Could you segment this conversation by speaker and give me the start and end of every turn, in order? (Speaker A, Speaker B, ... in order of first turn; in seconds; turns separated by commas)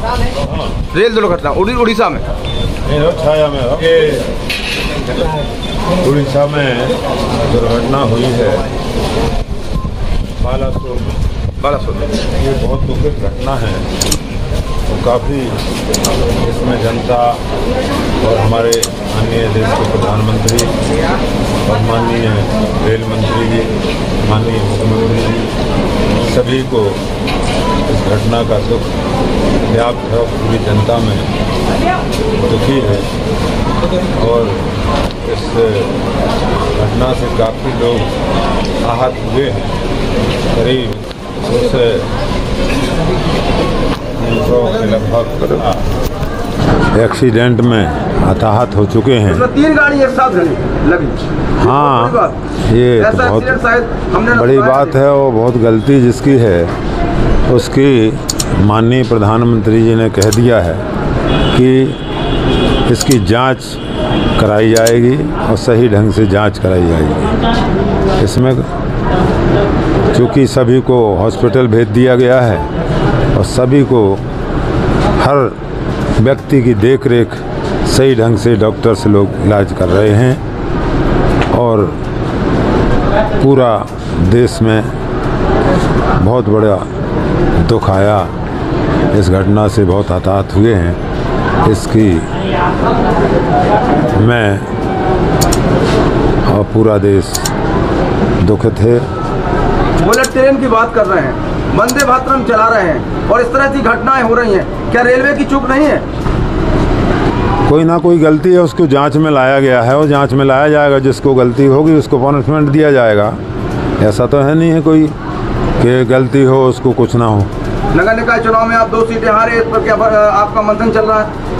Speaker A: 0.4-0.8, Speaker B: 0.9-2.2, Speaker A: 2.8-4.3, Speaker A: 6.0-8.7, Speaker A: 10.4-11.2, Speaker B: 11.6-12.2, Speaker A: 12.3-13.9, Speaker A: 14.9-15.6, Speaker A: 16.4-17.4, Speaker A: 18.2-20.7, Speaker A: 21.6-25.5, Speaker A: 26.2-27.0, Speaker A: 27.9-28.9, Speaker A: 29.6-31.3, Speaker A: 32.4-33.1, Speaker A: 34.1-34.6, Speaker A: 35.2-35.9, Speaker A: 36.7-38.1, Speaker A: 38.8-39.7, Speaker A: 40.5-42.1, Speaker A: 44.2-45.8, Speaker A: 46.9-49.5, Speaker B: 49.2-52.4, Speaker A: 51.6-53.6, Speaker B: 53.0-55.0, Speaker A: 54.3-56.7, Speaker A: 57.5-60.8, Speaker A: 61.5-62.0, Speaker A: 62.9-63.8, Speaker A: 64.4-67.4, Speaker A: 68.2-68.7, Speaker A: 70.1-72.7, Speaker A: 73.3-74.2, Speaker A: 75.2-75.6, Speaker A: 76.2-80.4, Speaker A: 81.5-82.0, Speaker A: 83.4-84.9, Speaker A: 86.2-86.9, Speaker A: 87.6-88.3, Speaker A: 89.1-91.0, Speaker A: 91.6-92.3, Speaker A: 94.1-94.7, Speaker A: 96.5-97.5, Speaker A: 98.4-99.1, Speaker B: 100.0-106.0, Speaker A: 107.7-113.4, Speaker A: 114.0-115.1, Speaker A: 115.8-117.5, Speaker B: 117.9-121.3